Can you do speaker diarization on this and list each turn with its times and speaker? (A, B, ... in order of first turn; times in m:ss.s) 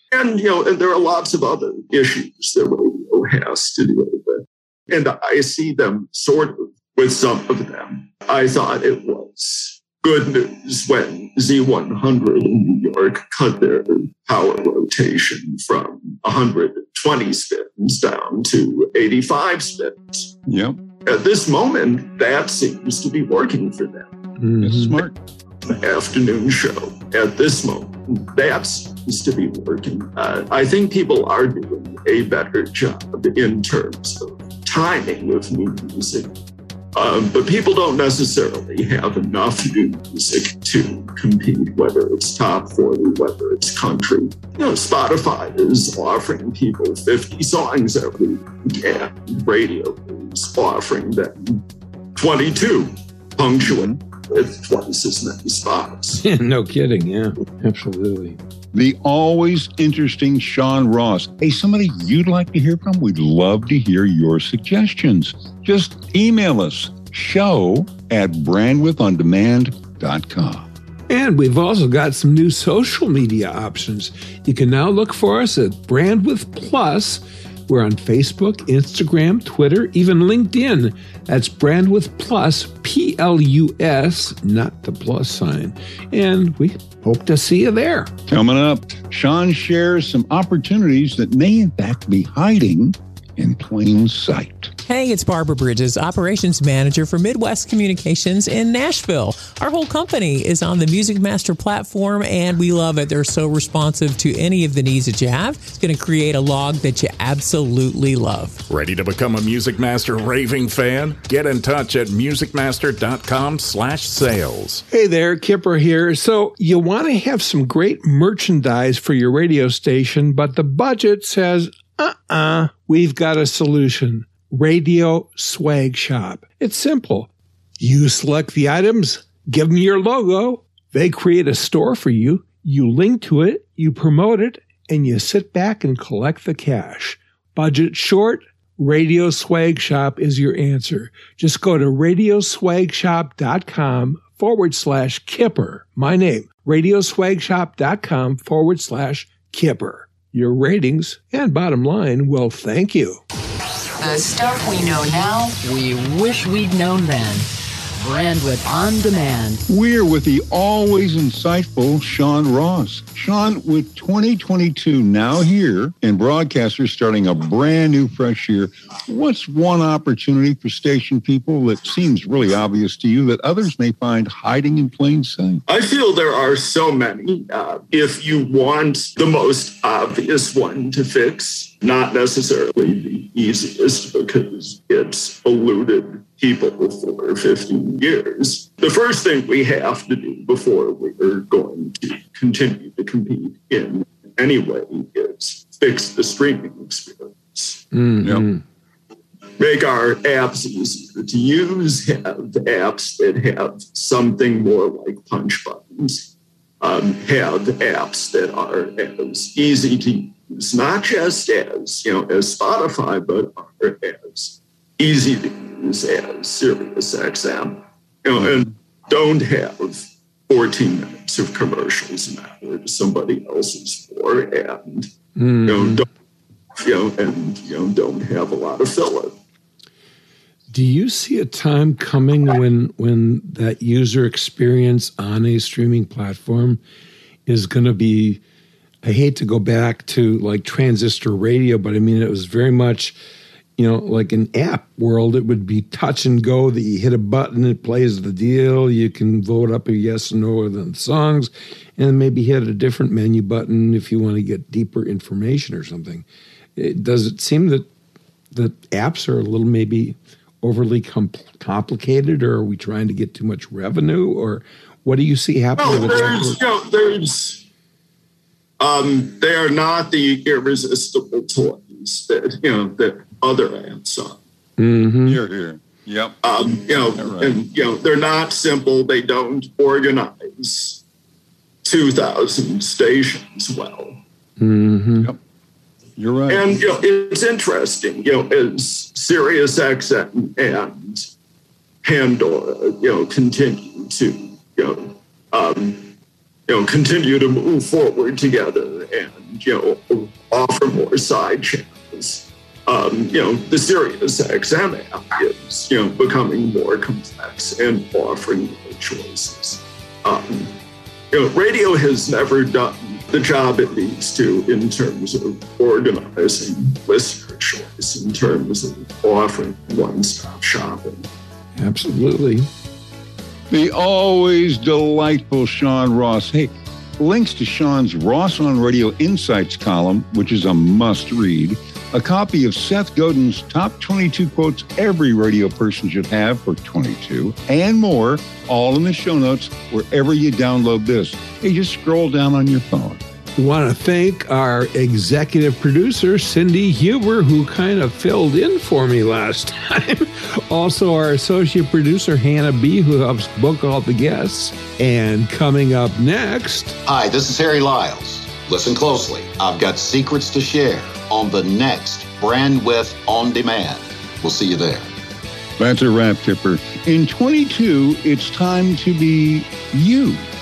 0:00.1-0:20.3 A
0:20.5-0:20.8 B
0:21.0-0:24.1 A
0:24.4-0:24.9 C
0:24.6-0:25.2 B
0:25.7-0:36.3 A
0:37.0-0:51.6 A
0:52.2-0:56.2 A
0:56.2-0:58.4 C
0:58.7-1:10.7 B
1:11.1-1:28.1 C
1:28.3-1:34.7 B
1:34.8-1:48.6 D
1:48.7-1:54.8 E
1:54.9-2:33.2 C
2:34.0-2:37.5 F
2:38.0-2:39.6 F
2:39.7-2:55.6 B
2:55.7-3:17.8 A
3:17.9-3:18.6 C
3:19.6-3:45.1 A
3:45.4-3:46.0 C
3:45.6-3:46.1 A
3:46.8-3:49.3 A
3:50.7-3:56.8 C
3:57.5-3:58.4 C
3:59.0-4:03.2 C
4:03.8-4:16.2 C
4:16.8-4:17.9 C
4:18.5-4:26.6 C
4:25.8-4:27.6 A
4:28.8-4:34.4 A
4:34.8-4:35.4 C
4:35.2-4:36.4 B
4:36.4-4:41.0 A
4:36.9-4:37.6 B
4:41.8-4:44.2 A
4:44.6-4:45.3 C
4:46.2-4:47.0 B
4:46.5-4:51.2 A
4:52.0-4:56.1 A
4:56.7-5:10.8 A
5:11.3-5:21.3 A
5:21.8-5:22.7 C
5:23.7-5:43.2 B
5:43.6-5:57.0 C
5:57.1-6:05.1 G
6:05.8-6:10.5 B